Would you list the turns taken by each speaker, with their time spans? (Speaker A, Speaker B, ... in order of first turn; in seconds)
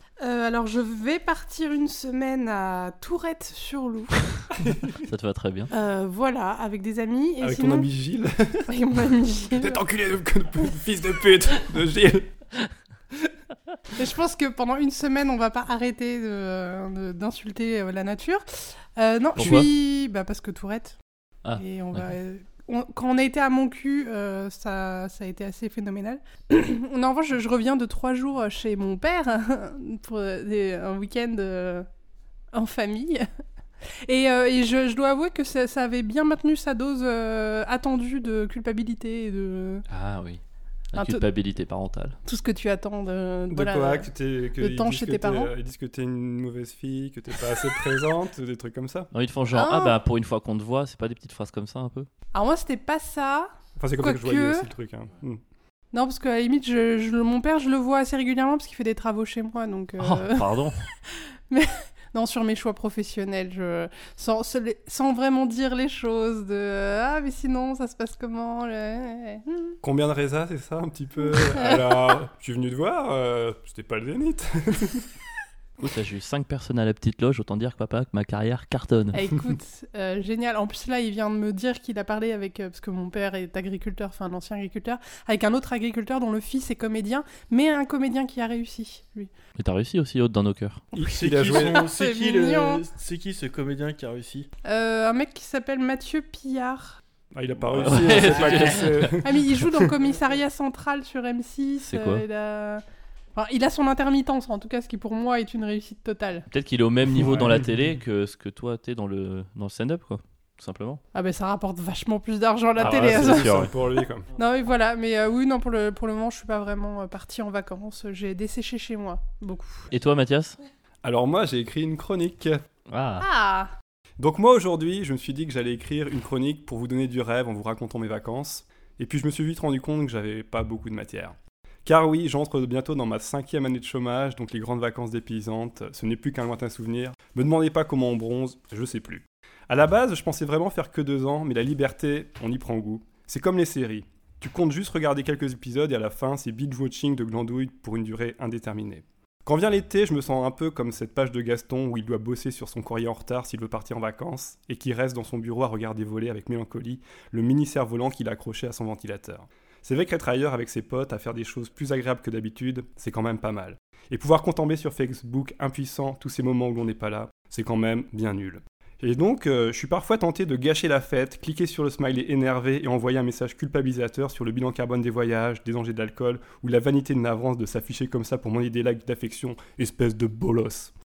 Speaker A: 0.2-4.5, 5.7-7.9, 8.7-9.8, 13.9-20.9, 21.6-31.9, 32.5-33.3, 34.0-39.8, 41.0-41.2, 42.2-45.5, 49.5-50.0, 52.3-54.7, 55.9-69.8, 71.3-72.2, 79.1-89.3, 91.5-92.8, 94.6-97.0, 99.2-102.8, 103.3-106.5, 111.1-119.9, 123.2-123.7
Speaker B: 4.6-5.0, 7.4-8.7, 9.5-12.4, 43.5-49.1, 53.8-55.4, 69.8-75.1, 90.9-91.9, 97.3-99.9, 107.2-107.7, 112.8-114.3, 121.0-122.6, 124.2-180.9
Speaker C: 5.0-5.7, 19.4-19.7, 21.4-22.1, 39.9-40.4, 40.9-42.2, 49.1-52.1, 60.0-60.8, 75.8-79.2, 89.6-90.8, 97.8-99.2, 101.8-102.2, 106.5-111.0, 112.8-113.7, 119.9-120.6, 122.9-123.2
Speaker D: 91.0-94.5